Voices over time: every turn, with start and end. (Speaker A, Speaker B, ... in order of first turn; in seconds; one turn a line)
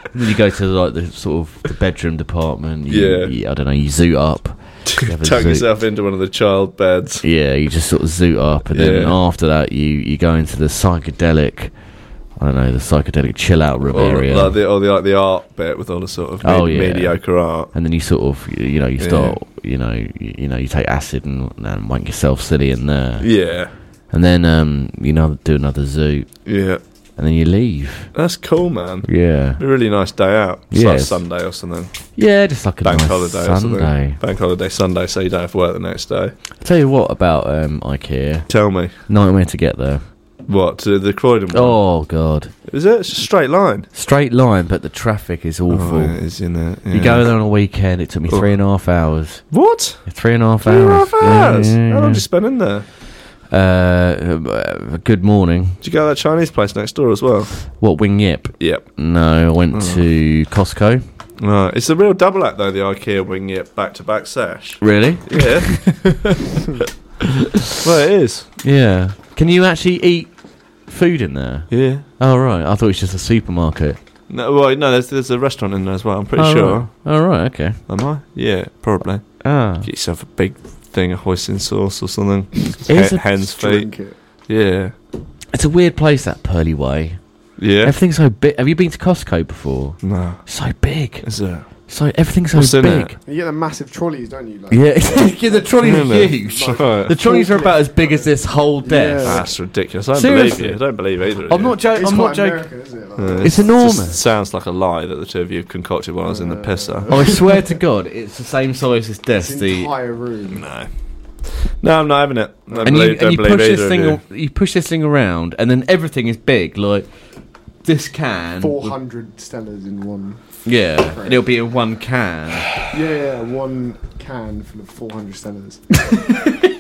Speaker A: 0.1-5.7
Speaker B: 2.9-3.3
Speaker B: 5.0-7.2
Speaker A: 7.2-11.8
Speaker B: 8.7-9.2
Speaker A: 12.3-14.6
Speaker B: 13.9-17.7
Speaker A: 16.4-28.1
Speaker B: 19.0-19.4
Speaker B: 23.2-23.7
Speaker B: 26.4-26.8
Speaker B: 28.1-32.2
Speaker A: 29.1-29.6
Speaker A: 30.7-31.2
Speaker A: 32.1-34.2
Speaker B: 32.8-36.4
Speaker A: 36.6-40.0
Speaker B: 38.5-38.9
Speaker B: 40.5-41.9
Speaker A: 41.5-42.5
Speaker B: 42.7-43.9
Speaker A: 43.9-46.3
Speaker B: 45.7-47.4
Speaker A: 46.9-52.2
Speaker B: 48.3-48.5
Speaker B: 49.5-52.9
Speaker A: 53.5-55.8
Speaker B: 55.8-57.8
Speaker A: 57.8-61.0
Speaker B: 58.6-59.0
Speaker B: 59.7-60.0
Speaker B: 61.4-66.3
Speaker A: 64.8-65.9
Speaker B: 67.8-68.5
Speaker A: 68.6-74.0
Speaker B: 71.7-72.0
Speaker B: 74.3-77.3
Speaker A: 76.4-77.8
Speaker B: 77.9-84.9
Speaker A: 79.4-79.9
Speaker A: 82.9-83.3
Speaker C: 83.2-84.2
Speaker A: 85.5-93.2
Speaker B: 87.6-87.9
Speaker B: 90.0-90.6
Speaker B: 91.2-91.9
Speaker B: 92.5-93.1
Speaker C: 93.2-99.5
Speaker A: 94.7-102.7
Speaker B: 95.8-97.1
Speaker B: 99.2-101.8
Speaker C: 101.9-103.8
Speaker B: 103.2-107.3
Speaker A: 103.4-104.2
Speaker C: 106.2-107.8
Speaker A: 107.1-109.9
Speaker C: 109.4-110.7
Speaker B: 110.5-110.9
Speaker B: 111.7-114.2
Speaker C: 112.7-113.0
Speaker A: 112.8-117.1
Speaker A: 117.8-119.0
Speaker C: 118.6-121.5
Speaker A: 120.6-122.7
Speaker C: 122.9-126.1